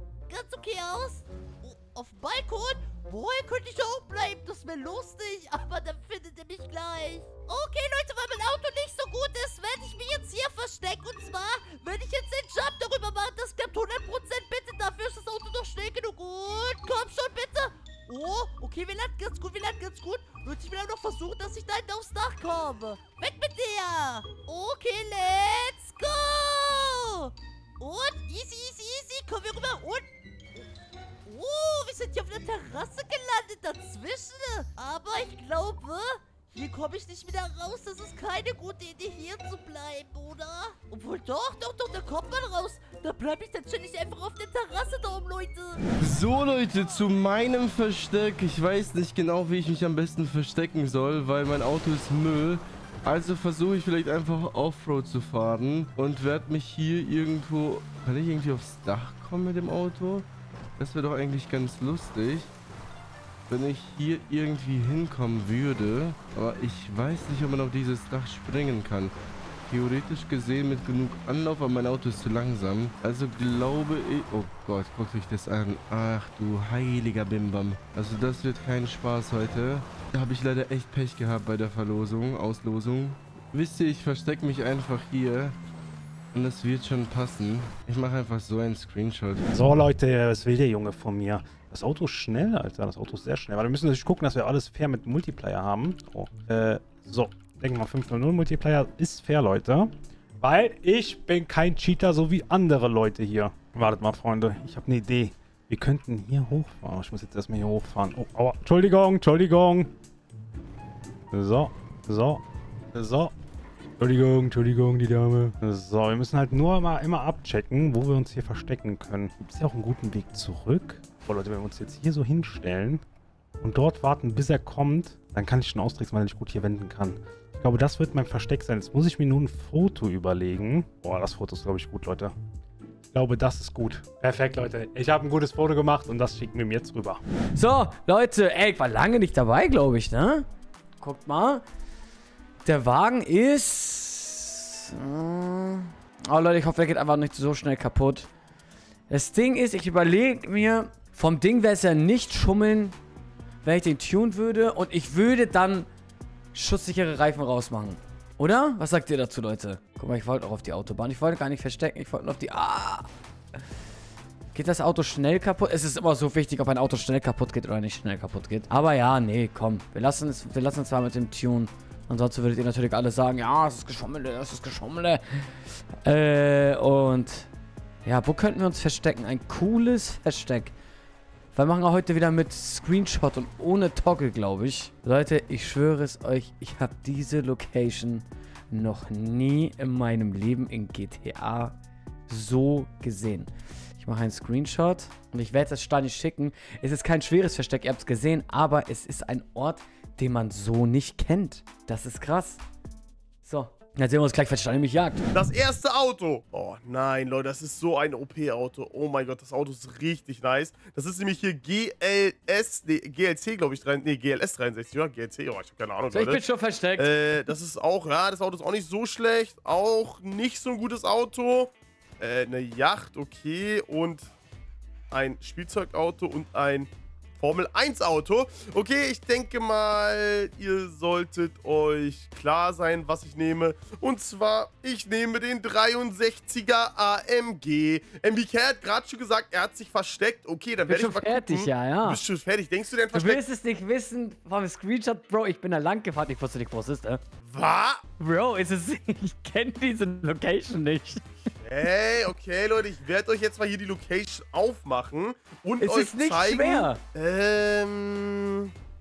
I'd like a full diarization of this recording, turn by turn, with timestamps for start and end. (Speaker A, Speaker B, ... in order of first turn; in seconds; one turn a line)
Speaker A: 0.3-30.1
Speaker A: 31.3-45.8
Speaker B: 46.0-62.5
Speaker B: 63.5-69.1
Speaker B: 69.7-85.6
Speaker B: 86.3-89.5
Speaker C: 89.5-109.9
Speaker C: 111.3-113.3
Speaker C: 114.0-123.0
Speaker C: 123.6-132.3
Speaker C: 133.1-137.2
Speaker D: 137.6-140.5
Speaker D: 141.0-141.6
Speaker D: 142.7-148.3
Speaker D: 149.1-153.0
Speaker D: 153.6-155.9
Speaker D: 156.5-163.1
Speaker D: 164.5-177.5
Speaker D: 178.1-180.7
Speaker D: 181.5-191.8
Speaker D: 192.3-202.6
Speaker D: 203.4-205.3
Speaker E: 205.3-216.4
Speaker D: 216.1-217.4
Speaker E: 217.0-224.3
Speaker E: 225.1-243.4
Speaker D: 240.9-242.2
Speaker D: 243.1-247.2
Speaker E: 247.4-248.0
Speaker D: 248.2-251.2
Speaker E: 251.6-258.7
Speaker D: 255.8-257.0